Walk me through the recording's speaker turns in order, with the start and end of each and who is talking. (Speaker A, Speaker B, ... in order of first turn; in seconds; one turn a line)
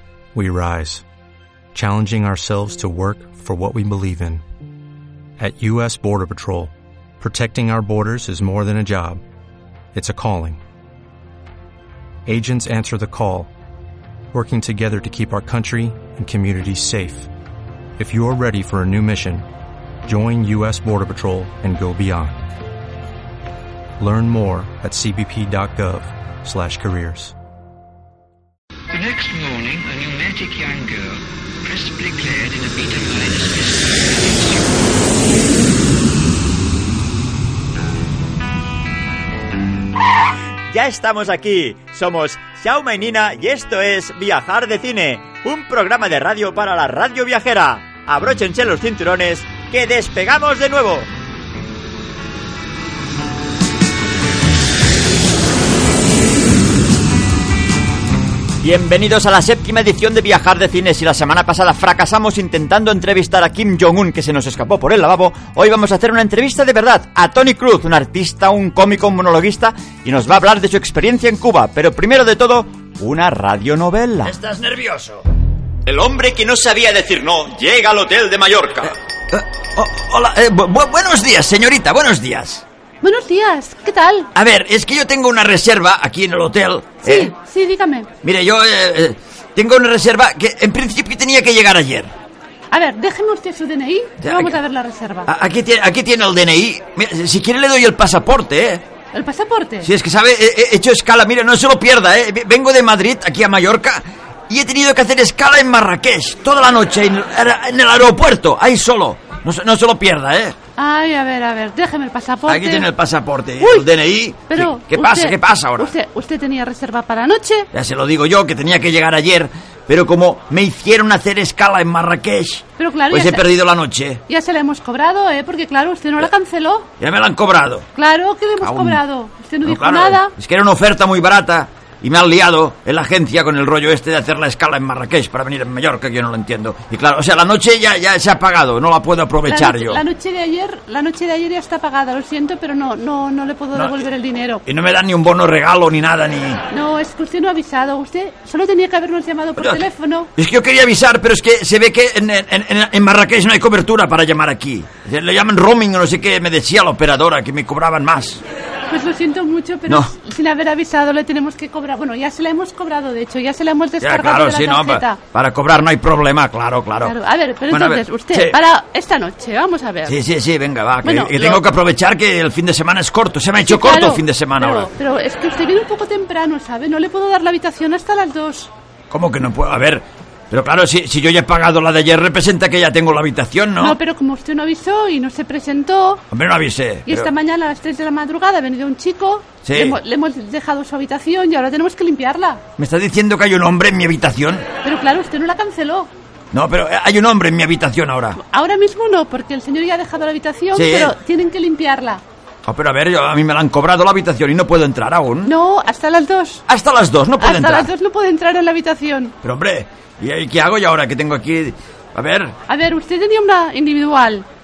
Speaker A: 0.3-1.0
Speaker A: 1.7-4.4
Speaker A: 5.4-9.2
Speaker A: 9.9-10.6
Speaker A: 12.3-13.5
Speaker A: 14.3-17.3
Speaker A: 18.0-19.4
Speaker A: 20.1-22.4
Speaker A: 24.0-27.3
Speaker B: 28.9-35.0
Speaker C: 40.7-51.1
Speaker C: 58.6-74.4
Speaker D: 74.2-75.2
Speaker C: 75.9-78.9
Speaker D: 78.9-82.6
Speaker E: 83.0-84.3
Speaker D: 84.3-87.3
Speaker E: 87.0-88.1
Speaker D: 88.2-92.1
Speaker E: 92.7-95.3
Speaker D: 94.2-94.6
Speaker D: 95.3-98.8
Speaker E: 99.1-99.9
Speaker D: 99.8-110.5
Speaker E: 110.8-112.9
Speaker D: 112.5-115.9
Speaker E: 113.6-113.9
Speaker E: 114.5-117.7
Speaker D: 117.7-124.2
Speaker E: 122.8-123.5
Speaker E: 124.3-126.9
Speaker D: 127.0-127.9
Speaker E: 128.0-130.3
Speaker D: 128.6-129.0
Speaker D: 129.6-140.0
Speaker E: 139.5-144.6
Speaker D: 144.7-146.6
Speaker E: 146.7-150.3
Speaker D: 149.6-158.4
Speaker E: 158.9-165.2
Speaker D: 164.0-167.2
Speaker E: 167.0-170.2
Speaker D: 167.7-168.6
Speaker D: 170.1-174.9
Speaker E: 171.0-171.6
Speaker E: 173.6-178.7
Speaker D: 179.1-184.0
Speaker E: 183.8-186.2
Speaker D: 186.3-187.3
Speaker E: 187.1-192.6
Speaker D: 189.7-190.0
Speaker D: 192.8-194.7
Speaker E: 194.8-196.1
Speaker D: 196.5-198.4
Speaker E: 198.4-202.2
Speaker D: 200.7-201.1
Speaker D: 202.7-205.5
Speaker E: 205.4-206.6
Speaker D: 206.7-207.9
Speaker E: 207.4-209.3
Speaker D: 209.4-212.6
Speaker E: 212.7-214.5